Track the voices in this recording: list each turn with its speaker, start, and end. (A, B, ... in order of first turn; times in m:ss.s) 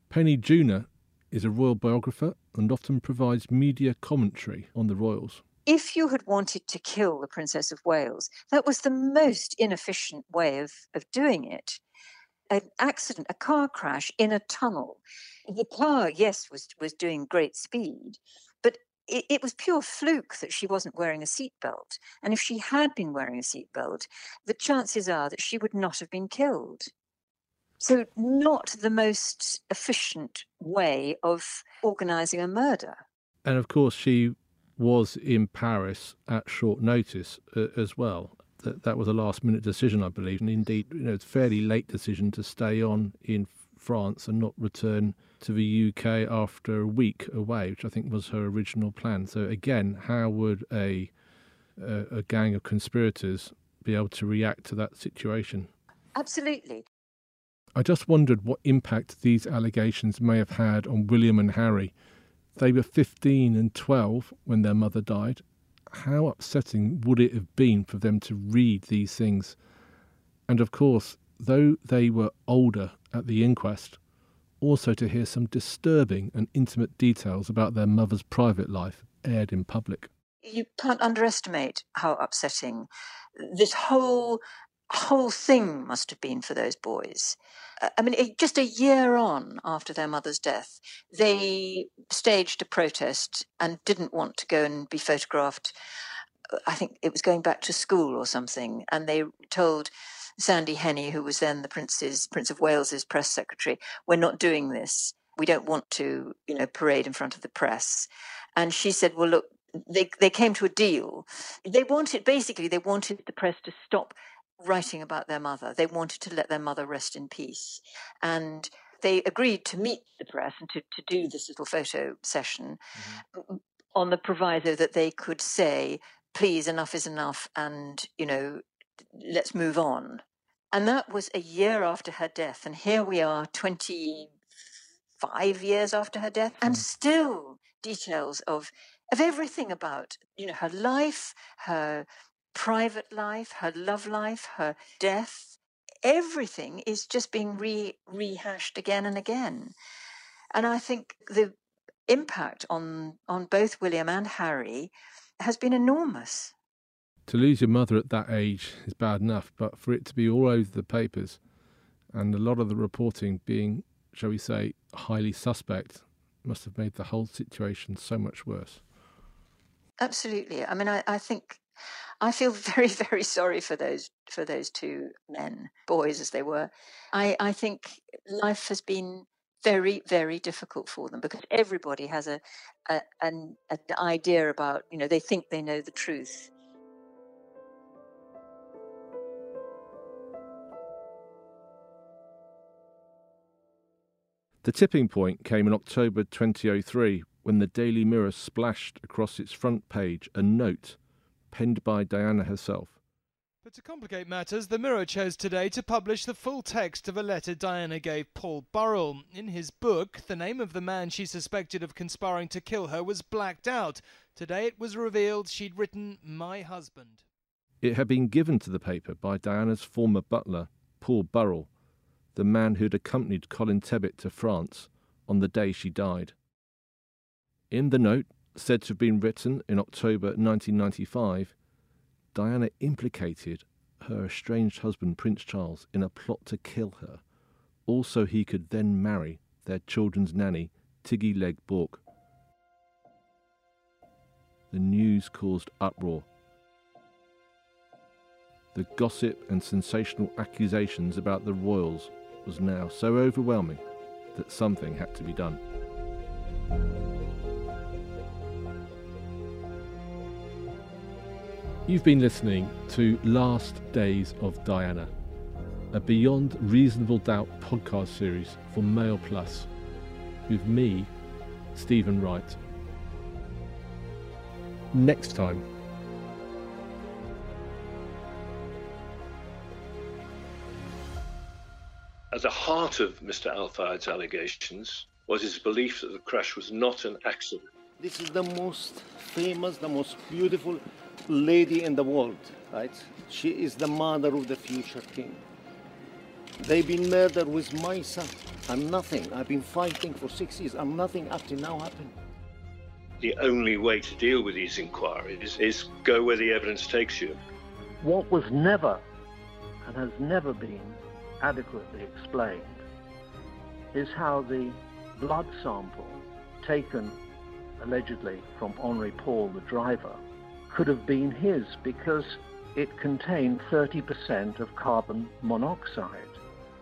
0:00.1-0:05.4 A
0:05.7-0:11.8 B
0:12.5-0:26.9 B
0:27.8-0:33.0 B
0:33.4-0:51.1 A
0:51.8-0:55.7 A
0:56.2-0:56.8 B
0:57.8-1:01.9 A
1:02.6-1:09.6 A
1:10.5-1:14.0 A
1:14.6-1:20.1 A
1:20.4-1:35.7 B
1:36.7-2:02.8 B
2:03.4-2:14.3 B
2:15.2-2:29.7 B
2:30.5-2:31.5 B
2:32.1-2:36.5 B
2:37.3-2:41.4 A
2:42.1-2:48.8 A
2:50.0-2:51.6 B
2:52.2-3:06.5 B
3:14.6-3:21.0 A
3:21.5-3:23.0 A
3:23.6-3:37.2 C
3:37.8-3:41.7 A
3:42.4-3:46.3 A
3:47.7-3:51.5 A
3:52.3-3:57.2 A
3:57.9-4:02.0 A
4:04.7-4:06.3 A
4:08.7-4:13.8 A
4:14.3-4:15.6 A
4:21.9-4:25.1 A
4:25.9-4:29.7 A
4:30.5-4:31.1 A
4:31.7-4:32.6 A
4:34.9-4:35.6 A
4:42.3-4:47.7 D
4:48.0-4:55.4 E
4:56.6-5:02.2 E
5:03.2-5:07.4 D
5:08.0-5:09.0 F
5:09.8-5:12.8 F
5:13.9-5:17.2 F
5:17.8-5:26.4 F